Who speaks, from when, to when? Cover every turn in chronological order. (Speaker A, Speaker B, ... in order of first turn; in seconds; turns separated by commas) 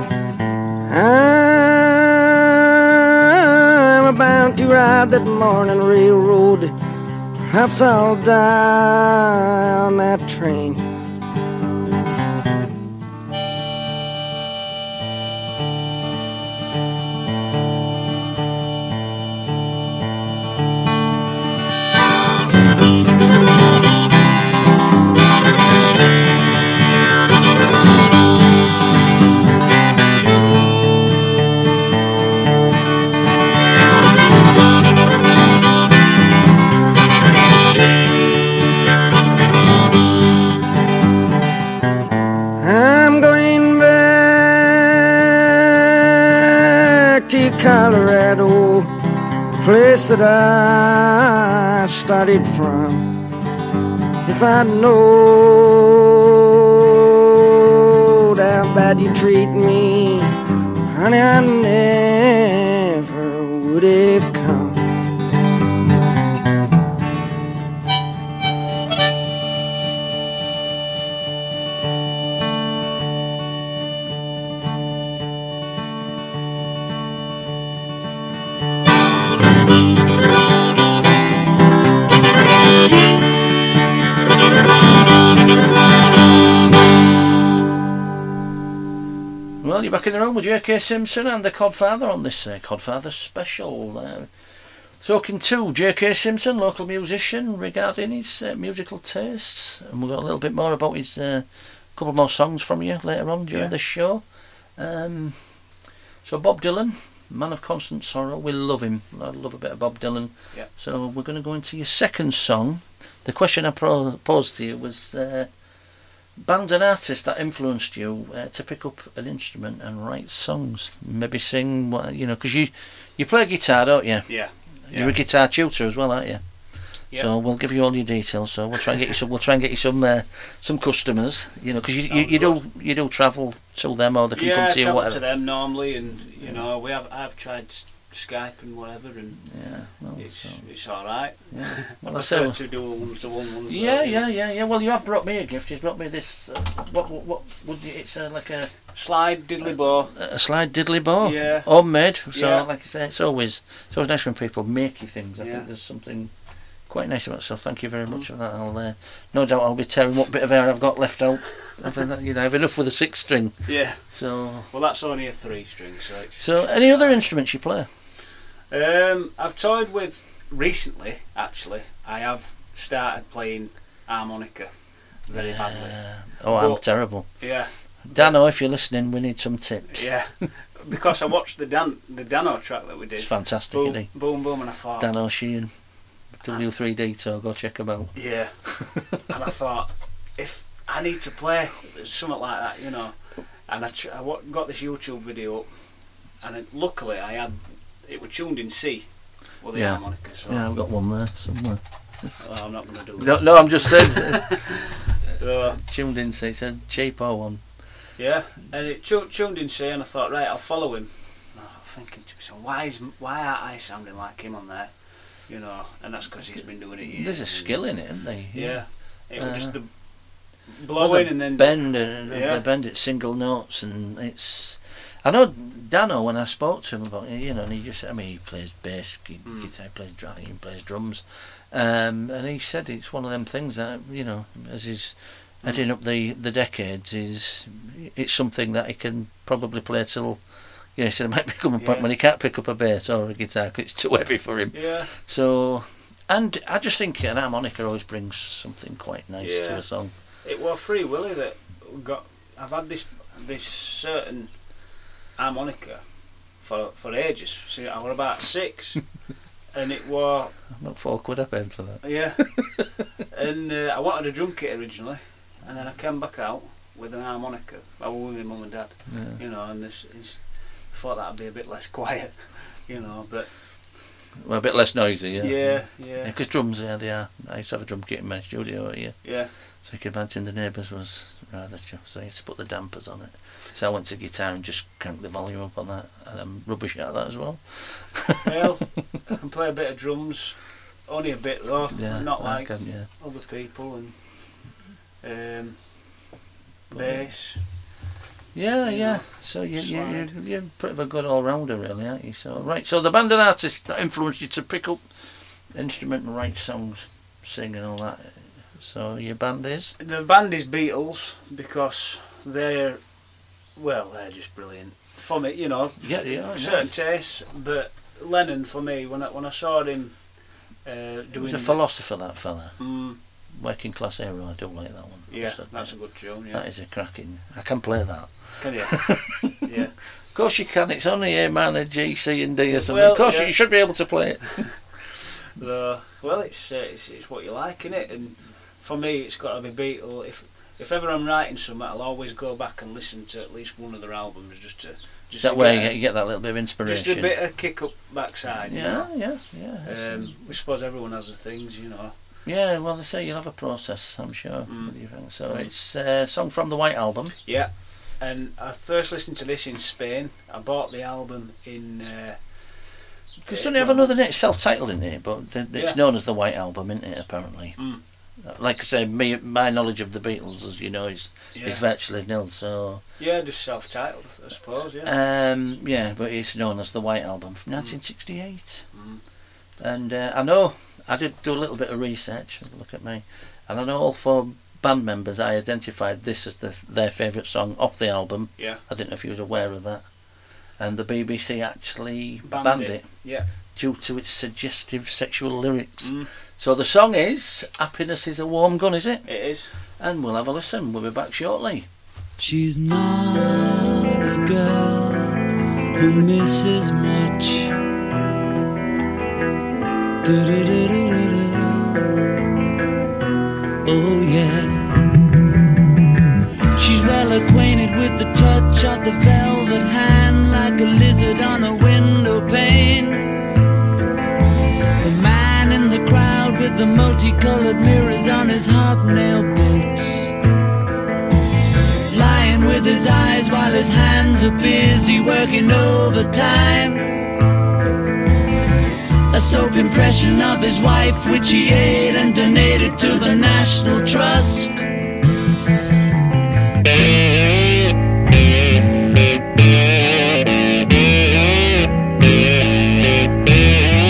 Speaker A: 0.9-6.7, Speaker A: 7.5-10.8, Speaker A: 42.6-48.9, Speaker A: 49.6-53.0, Speaker A: 54.3-60.3, Speaker A: 60.9-64.8, Speaker B: 89.6-115.5, Speaker B: 116.4-135.2, Speaker C: 124.3-125.2, Speaker C: 132.1-132.6, Speaker C: 134.3-144.2, Speaker B: 136.4-136.7, Speaker B: 139.4-143.0, Speaker B: 143.7-148.8, Speaker C: 148.9-150.1, Speaker B: 149.6-156.3, Speaker C: 151.2-152.7, Speaker C: 155.4-155.7, Speaker B: 156.8-164.7, Speaker C: 163.7-167.3, Speaker B: 166.4-167.9, Speaker C: 168.7-178.4, Speaker B: 175.3-180.1, Speaker C: 179.9-185.1, Speaker B: 183.2-188.9, Speaker C: 188.2-200.7, Speaker B: 199.7-202.4, Speaker C: 202.4-204.8, Speaker B: 203.2-204.8, Speaker C: 205.3-205.8, Speaker B: 205.6-208.0, Speaker C: 208.2-222.6, Speaker B: 216.8-220.1, Speaker B: 221.0-250.1, Speaker C: 229.4-229.7, Speaker C: 241.8-242.1, Speaker C: 244.7-245.1, Speaker C: 249.4-260.6, Speaker B: 260.7-262.9, Speaker C: 262.0-273.6, Speaker B: 269.1-269.4, Speaker B: 274.4-288.5, Speaker C: 275.4-276.3, Speaker C: 279.2-279.5, Speaker C: 288.4-296.2, Speaker B: 291.9-293.1, Speaker B: 296.9-297.3, Speaker C: 296.9-297.9, Speaker B: 298.5-305.1, Speaker C: 298.8-300.3, Speaker B: 305.7-310.0, Speaker C: 310.0-322.0, Speaker B: 316.0-317.0, Speaker B: 321.3-329.6, Speaker C: 322.8-323.2, Speaker C: 325.3-326.6, Speaker C: 328.6-329.9, Speaker B: 330.2-335.0, Speaker C: 332.7-334.0, Speaker C: 335.6-346.0, Speaker B: 345.4-347.3, Speaker C: 346.8-352.1, Speaker B: 348.7-350.6, Speaker B: 352.4-357.4, Speaker C: 354.7-355.7, Speaker C: 357.4-362.9, Speaker B: 363.4-373.0, Speaker C: 363.5-364.1, Speaker C: 367.8-368.0, Speaker C: 371.5-371.8, Speaker C: 373.2-375.1, Speaker B: 375.0-378.9, Speaker C: 378.9-379.2, Speaker B: 379.8-401.9, Speaker C: 392.4-393.5, Speaker C: 396.0-396.3, Speaker C: 399.2-399.7, Speaker D: 402.4-405.4, Speaker D: 406.0-407.7, Speaker D: 410.2-412.0, Speaker D: 413.8-414.9, Speaker D: 416.8-423.3, Speaker D: 425.0-430.3, Speaker D: 432.1-437.1, Speaker D: 439.3-444.8